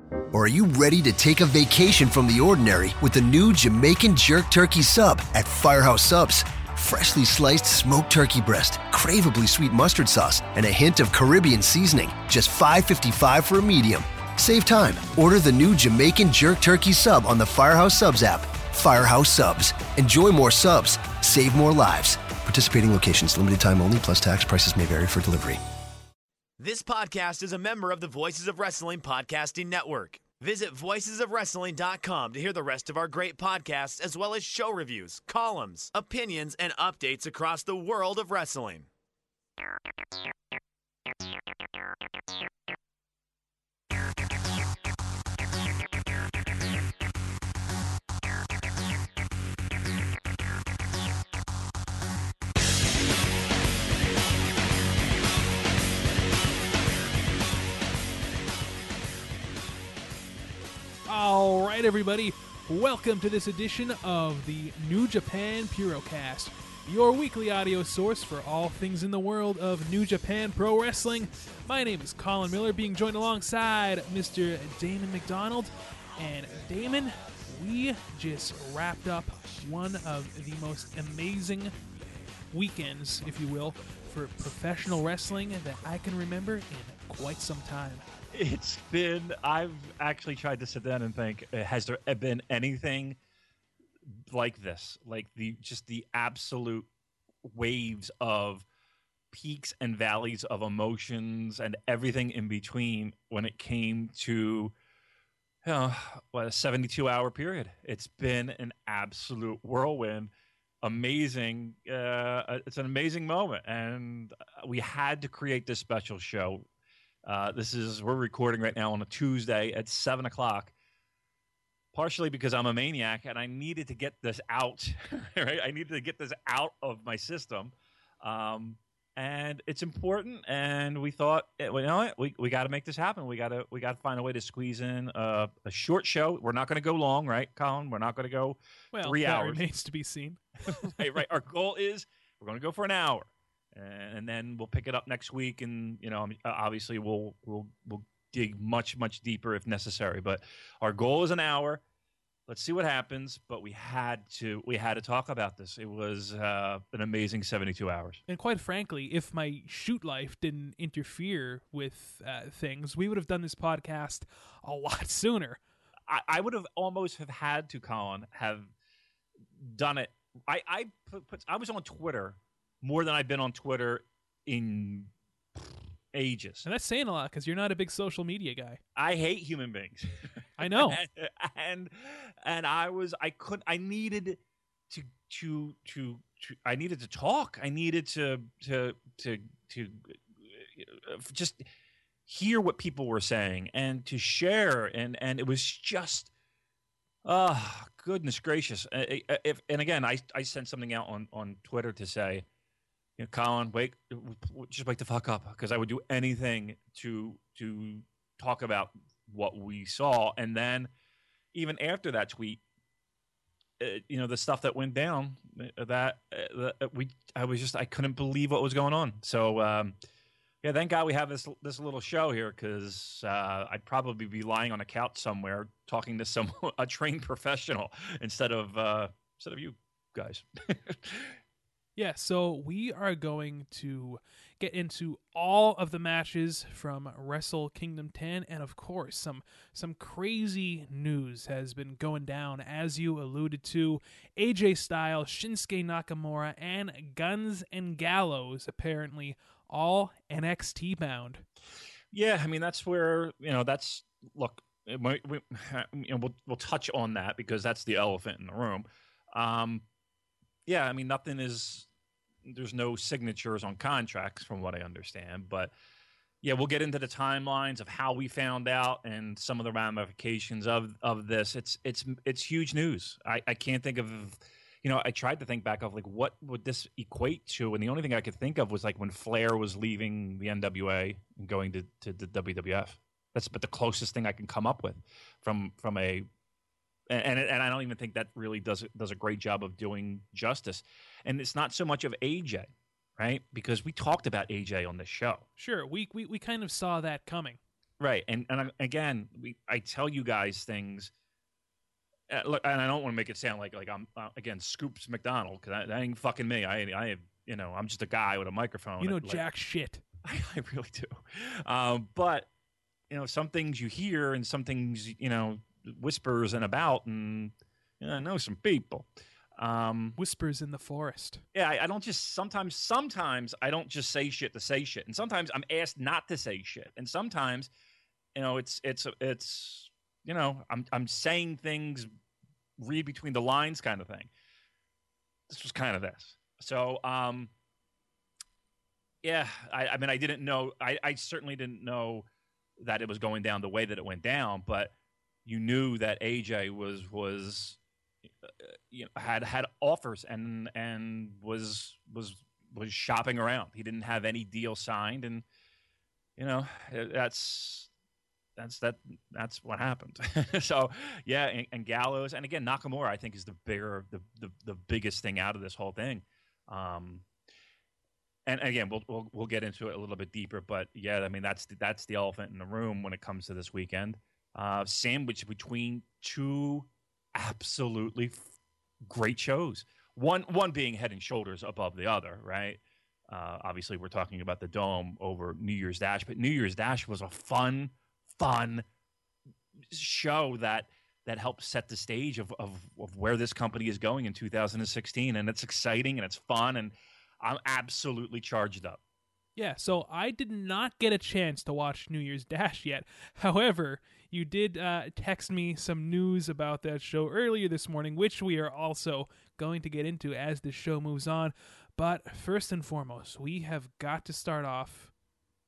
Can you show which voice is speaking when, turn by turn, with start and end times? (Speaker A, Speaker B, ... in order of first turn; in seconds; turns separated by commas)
Speaker A: 0.3-25.6, Speaker B: 26.6-38.9, Speaker C: 61.0-81.7, Speaker C: 82.5-88.0, Speaker D: 88.3-93.2, Speaker D: 94.3-96.9, Speaker D: 97.4-98.7, Speaker D: 99.3-104.7, Speaker D: 105.6-110.3, Speaker D: 110.8-116.6, Speaker D: 117.2-120.7, Speaker D: 121.9-139.6, Speaker C: 138.9-140.9, Speaker D: 140.7-151.8, Speaker D: 152.5-158.2, Speaker C: 158.3-165.6, Speaker D: 166.1-168.7, Speaker D: 169.6-176.7, Speaker C: 176.6-178.8, Speaker D: 178.9-191.6, Speaker C: 180.6-181.0, Speaker D: 192.3-196.3, Speaker D: 197.2-202.4, Speaker D: 203.2-210.9, Speaker D: 211.5-212.6, Speaker D: 213.8-219.9, Speaker D: 220.6-231.4, Speaker C: 232.0-251.4, Speaker D: 252.1-259.8, Speaker D: 260.7-261.9, Speaker D: 262.4-265.7, Speaker D: 266.4-286.2, Speaker D: 287.1-295.4, Speaker C: 295.6-297.6, Speaker D: 298.0-301.1, Speaker D: 302.3-309.4, Speaker C: 309.0-310.0, Speaker D: 310.2-312.5, Speaker D: 313.1-320.2, Speaker C: 320.2-321.4, Speaker D: 321.5-327.7, Speaker D: 328.3-332.1, Speaker D: 332.8-334.3, Speaker D: 335.5-337.5, Speaker D: 339.2-342.2, Speaker D: 342.8-344.9, Speaker D: 345.4-347.8, Speaker D: 348.4-355.4, Speaker D: 356.4-357.9, Speaker D: 358.6-367.2, Speaker D: 368.5-378.5, Speaker D: 379.0-388.8, Speaker D: 389.9-399.0, Speaker C: 399.6-415.1